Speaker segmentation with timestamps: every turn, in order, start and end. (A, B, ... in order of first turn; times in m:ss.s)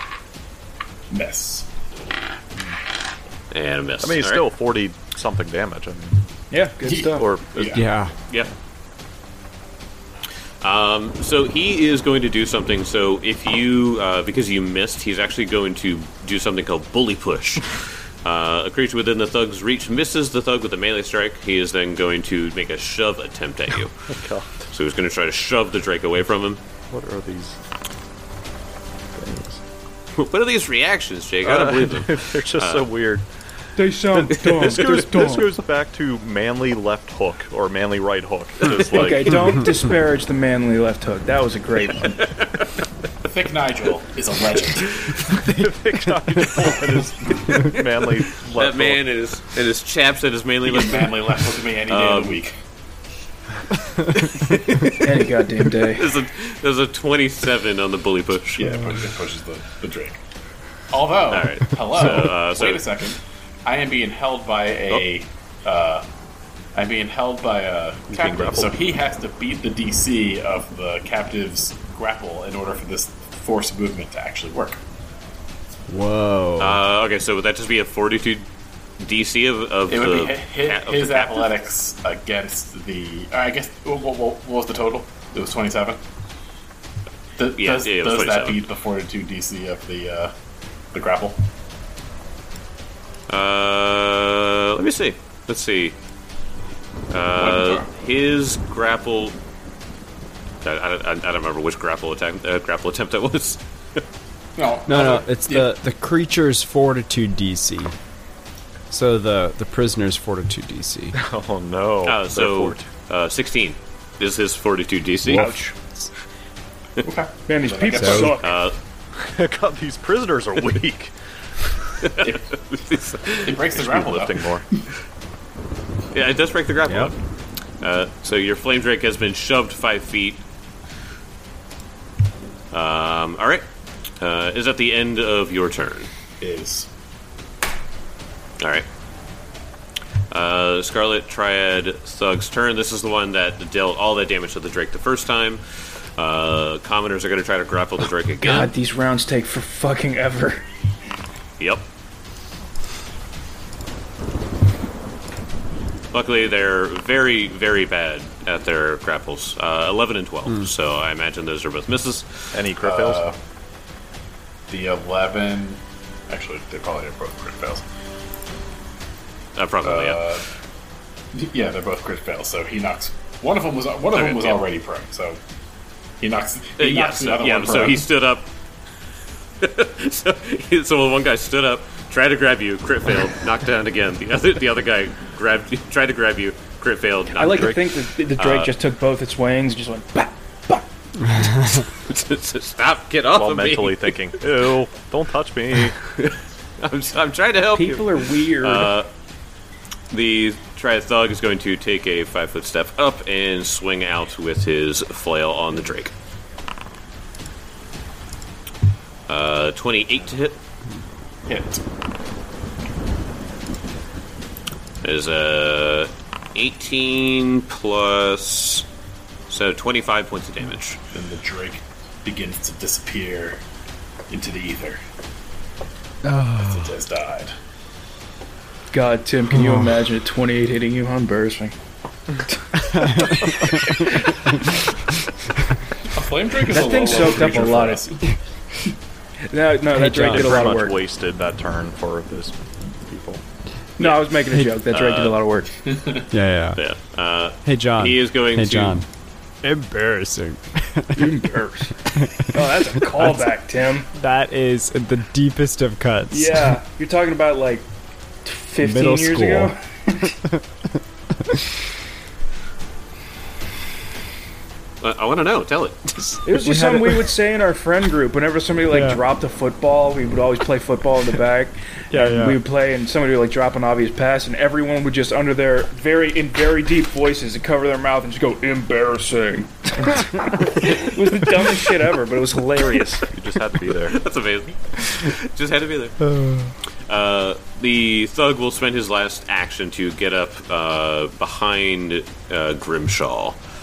0:01.1-0:01.7 A
0:03.5-0:04.4 B
0:04.0-0:06.3 C
0:06.5-0:07.3 D
0:06.8-0:07.8 A
0:07.2-0:07.6 C
0:07.7-0:08.1 E
0:10.6-0:23.9 B
0:24.1-0:24.6 C
0:24.7-0:26.6 B
0:26.9-0:27.6 C
0:29.1-0:29.6 C
0:30.1-0:32.9 B
0:31.4-0:33.2 C
0:33.8-0:35.5 D
0:34.4-0:34.8 B
0:34.5-0:39.6 C
0:38.8-0:42.3 D
0:42.1-0:42.7 B
0:43.2-0:45.0 A
0:45.3-0:45.7 E
0:45.4-0:49.0 C
0:47.5-0:52.4 B
0:50.6-0:52.5 A
0:54.2-0:58.8 B
0:54.9-0:56.2 D
0:58.5-1:00.2 A
1:00.9-1:06.0 A
1:01.3-1:03.0 B
1:06.7-1:14.8 A
1:08.1-1:08.7 C
1:15.9-1:16.8 E
1:16.6-1:18.4 B
1:19.0-1:21.5 B
1:19.9-1:26.0 A
1:27.4-1:30.3 A
1:27.6-1:28.6 B
1:30.9-1:31.4 A
1:33.3-1:36.0 B
1:37.1-1:39.4 B
1:37.3-1:37.9 A
1:40.6-1:44.0 B
1:44.6-1:45.7 A
1:44.9-1:47.9 E
1:48.9-1:51.2 E
1:51.1-1:52.9 C
1:52.0-1:55.5 B
1:55.2-1:55.6 E
1:55.3-1:55.7 D
1:57.0-1:58.4 A
1:57.5-1:58.6 D
1:57.9-1:58.3 E
1:58.4-1:58.8 B
1:59.1-2:01.1 C
2:02.0-2:03.6 B
2:03.4-2:04.5 A
2:03.7-2:04.6 C
2:06.1-2:07.2 B
2:06.9-2:07.1 E
2:07.8-2:10.4 B
2:12.7-2:13.6 B
2:14.2-2:16.1 B
2:16.4-2:16.9 A
2:18.6-2:18.8 B
2:20.3-2:28.7 B
2:28.4-2:30.6 D
2:31.6-2:31.8 B
2:36.1-2:42.5 B
2:42.5-2:43.2 C
2:42.8-2:43.4 A
2:44.7-2:47.8 A
2:49.6-2:50.3 B
2:49.8-2:50.4 A
2:51.3-2:55.4 A
2:54.1-2:54.6 B
2:56.2-2:58.1 A
2:56.8-2:58.5 B
2:59.6-3:08.7 B
3:07.3-3:10.8 D
3:07.5-3:07.8 C
3:11.4-3:11.6 E
3:11.4-3:14.4 B
3:13.3-3:16.0 C
3:16.1-3:19.1 B
3:17.7-3:18.9 D
3:20.1-3:26.1 B
3:29.3-3:30.6 B
3:31.4-3:31.8 A
3:35.0-3:38.8 B
3:39.5-3:41.0 B
3:41.1-3:43.6 A
3:44.3-3:45.0 A
3:46.2-3:46.9 E
3:46.5-3:47.5 A
3:48.9-3:51.7 D
3:49.5-3:49.9 E
3:52.8-3:54.0 D
3:52.9-3:54.3 E
3:56.1-3:58.3 A
3:56.7-3:58.1 D
3:59.5-4:01.0 D
3:59.9-4:00.7 E
4:00.2-4:03.4 C
4:04.0-4:05.7 D
4:04.0-4:04.3 B
4:04.9-4:05.4 B
4:05.8-4:06.3 A
4:06.3-4:06.8 E
4:06.8-4:09.0 B
4:07.6-4:09.0 E
4:09.6-4:11.4 E
4:11.1-4:14.1 D
4:12.2-4:13.5 E
4:14.1-4:16.7 E
4:16.3-4:17.9 D
4:18.4-4:20.3 D
4:18.8-4:19.7 E
4:20.2-4:20.6 E
4:25.0-4:26.2 B
4:26.2-4:27.3 E
4:26.4-4:43.3 D
4:28.9-4:29.2 E
4:32.1-4:32.6 E
4:43.3-4:44.2 C
4:44.0-4:46.2 B
4:46.2-4:46.7 E
4:47.1-4:53.6 B